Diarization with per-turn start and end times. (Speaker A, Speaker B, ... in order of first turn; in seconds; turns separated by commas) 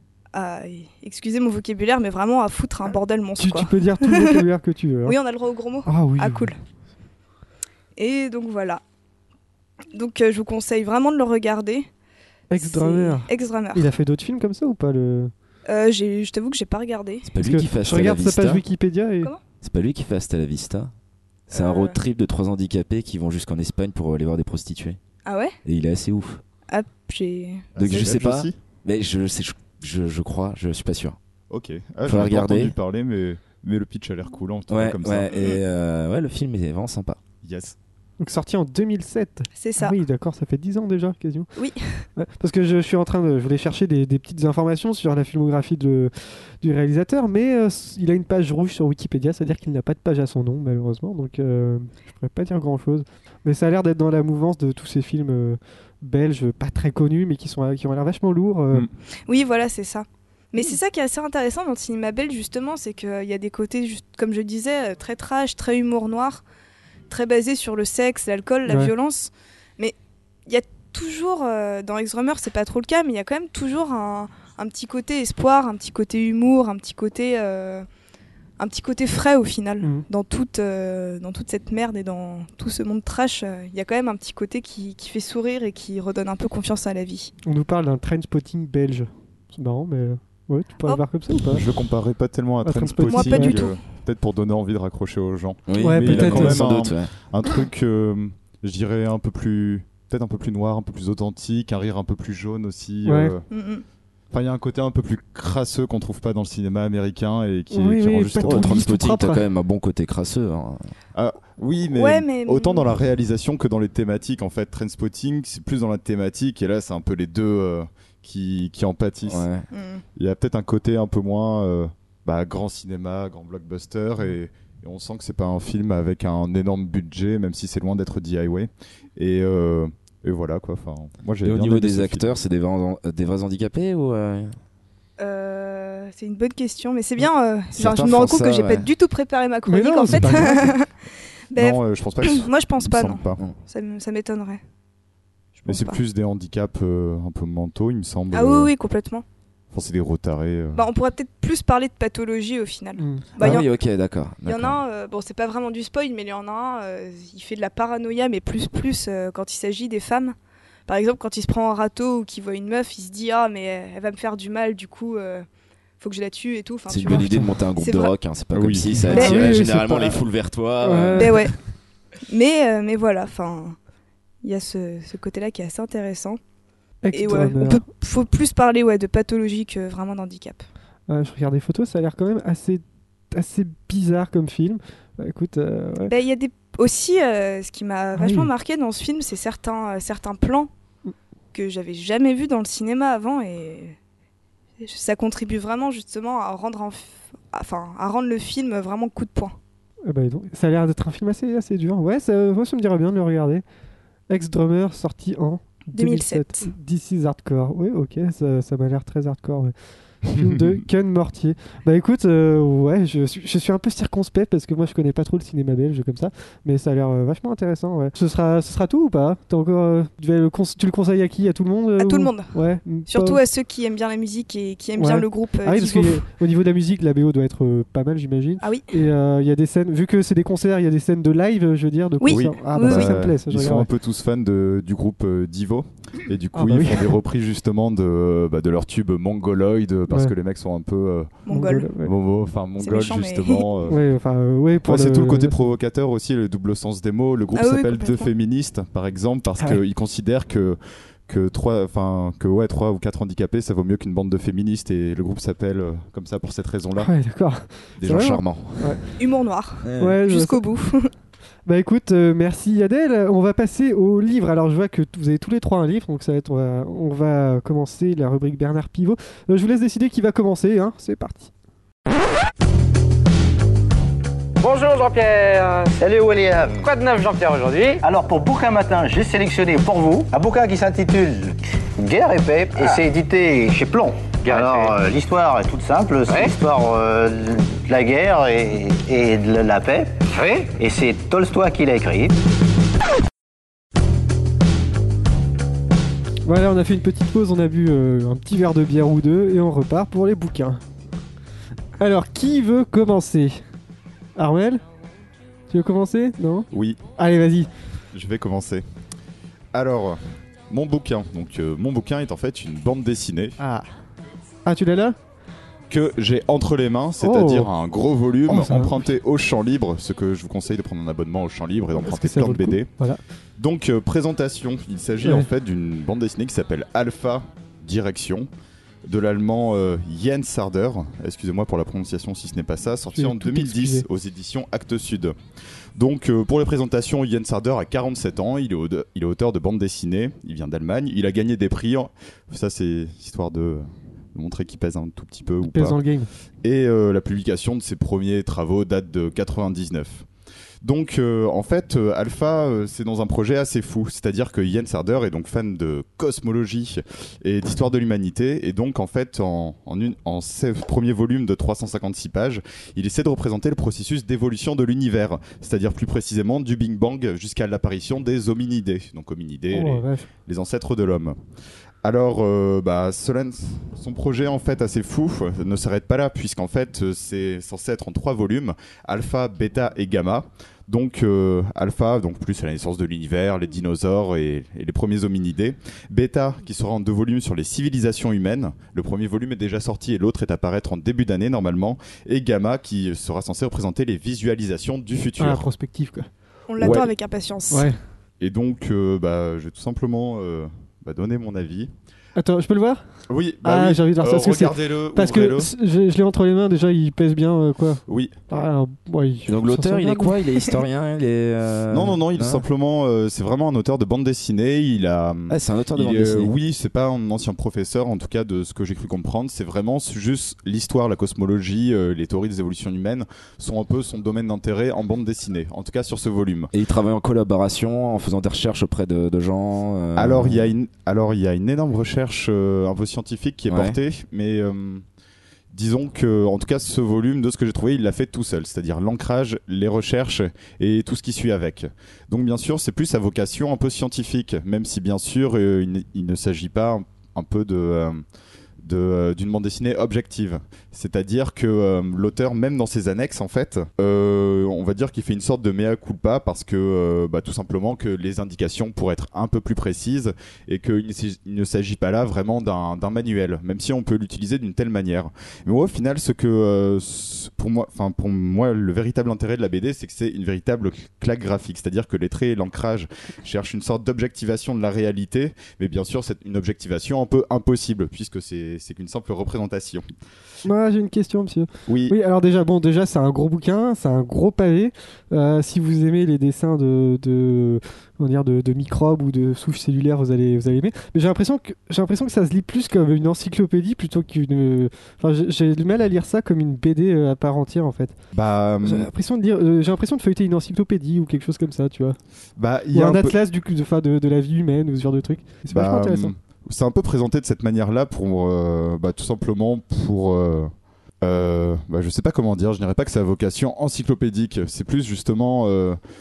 Speaker A: 0.3-4.5, Speaker B: 3.4-5.2, Speaker A: 5.1-6.6, Speaker B: 5.9-6.5, Speaker A: 8.0-8.8, Speaker A: 9.9-11.9, Speaker B: 12.5-15.3, Speaker A: 12.6-13.9, Speaker A: 15.7-17.3, Speaker C: 17.2-18.6, Speaker B: 17.4-19.3, Speaker C: 19.6-20.9, Speaker C: 21.5-25.0, Speaker A: 21.5-22.0, Speaker A: 25.3-25.6, Speaker C: 25.6-26.4, Speaker A: 26.7-28.1, Speaker D: 27.8-28.6, Speaker C: 27.8-31.2, Speaker D: 31.5-35.3, Speaker C: 32.1-32.8, Speaker C: 34.7-37.2, Speaker A: 35.3-35.6, Speaker D: 37.4-37.8, Speaker B: 38.2-41.5, Speaker A: 39.6-40.0, Speaker A: 41.6-42.0, Speaker B: 42.2-58.9, Speaker A: 59.3-66.4, Speaker A: 67.1-70.0, Speaker B: 68.7-68.9, Speaker A: 70.5-77.9, Speaker A: 78.6-87.3, Speaker B: 87.5-91.6, Speaker D: 91.5-103.5, Speaker B: 92.6-93.6, Speaker A: 93.1-93.8, Speaker C: 95.7-97.1, Speaker B: 95.8-96.6, Speaker B: 103.0-103.3, Speaker A: 103.5-103.8, Speaker D: 104.3-108.8, Speaker B: 107.7-109.4, Speaker C: 108.4-110.8, Speaker D: 111.2-119.5, Speaker A: 111.9-112.8, Speaker C: 119.3-119.7, Speaker A: 119.7-120.0, Speaker D: 120.2-132.4, Speaker C: 131.4-134.6, Speaker A: 135.2-140.9, Speaker C: 137.7-138.9, Speaker B: 139.7-140.7, Speaker A: 141.5-144.6, Speaker D: 141.6-143.4, Speaker A: 145.6-146.0, Speaker D: 145.7-148.7, Speaker A: 148.3-149.2, Speaker D: 149.7-150.8, Speaker A: 150.8-153.7, Speaker B: 153.0-153.6, Speaker C: 153.4-154.8, Speaker A: 154.5-160.3, Speaker A: 160.9-165.5, Speaker A: 166.0-168.1, Speaker C: 166.9-171.5, Speaker B: 167.1-167.5, Speaker D: 168.5-169.2, Speaker B: 169.1-170.2, Speaker A: 169.1-169.4, Speaker B: 170.8-171.5, Speaker A: 171.2-171.5, Speaker A: 172.3-173.8, Speaker A: 174.4-176.4, Speaker B: 177.0-177.8, Speaker A: 177.1-180.6, Speaker B: 181.1-186.1, Speaker A: 186.1-190.7, Speaker B: 188.2-188.5, Speaker A: 191.5-194.0, Speaker A: 194.8-199.6, Speaker B: 200.1-203.6, Speaker B: 204.3-209.7, Speaker A: 205.9-206.7, Speaker B: 210.3-223.4, Speaker D: 210.4-210.8, Speaker A: 222.0-222.6, Speaker A: 223.1-226.2, Speaker B: 225.0-233.9, Speaker A: 228.6-228.9, Speaker A: 232.2-233.2, Speaker D: 232.3-241.4, Speaker B: 236.6-237.1, Speaker A: 241.5-241.9, Speaker B: 241.5-242.1, Speaker D: 242.0-244.0, Speaker A: 242.8-243.8, Speaker B: 243.9-245.7, Speaker D: 244.8-257.1, Speaker A: 247.6-248.3, Speaker B: 257.0-259.0, Speaker C: 258.0-259.0, Speaker A: 259.2-261.1, Speaker C: 259.8-260.2, Speaker B: 260.0-260.6, Speaker B: 261.7-271.5, Speaker E: 274.6-276.0, Speaker F: 276.0-276.9, Speaker E: 276.8-278.0, Speaker F: 278.0-292.4, Speaker E: 282.8-283.0, Speaker E: 284.4-285.0, Speaker E: 286.3-286.5, Speaker B: 296.4-300.8, Speaker B: 302.0-303.6, Speaker B: 304.4-304.8, Speaker B: 305.7-307.7, Speaker D: 306.7-307.0, Speaker D: 308.1-308.8, Speaker D: 309.7-313.6, Speaker B: 313.6-313.9, Speaker B: 314.7-315.2, Speaker D: 315.9-322.9, Speaker B: 317.2-317.7, Speaker B: 318.5-319.0, Speaker B: 322.0-323.2, Speaker D: 323.6-328.5, Speaker B: 325.2-325.5, Speaker D: 329.1-335.4, Speaker B: 333.1-334.1, Speaker D: 336.0-346.0, Speaker B: 345.6-346.3, Speaker D: 346.6-350.3, Speaker D: 350.8-371.4, Speaker B: 369.7-370.3, Speaker D: 372.0-395.7, Speaker B: 395.4-396.3, Speaker A: 396.7-397.9, Speaker D: 396.8-397.1, Speaker B: 397.7-398.0, Speaker D: 398.4-401.9, Speaker B: 402.4-403.0, Speaker D: 403.3-405.7, Speaker B: 403.6-410.4, Speaker D: 408.1-408.4, Speaker C: 409.5-412.6, Speaker D: 411.9-426.7, Speaker C: 415.5-416.5, Speaker C: 426.7-430.7, Speaker D: 430.2-435.0, Speaker C: 433.7-434.0, Speaker D: 435.7-448.2, Speaker D: 448.8-480.0, Speaker B: 480.6-498.1, Speaker D: 481.9-482.2, Speaker D: 498.3-499.1, Speaker B: 498.8-502.2, Speaker D: 502.6-503.4, Speaker B: 502.9-506.3, Speaker D: 505.7-510.7, Speaker D: 511.2-516.0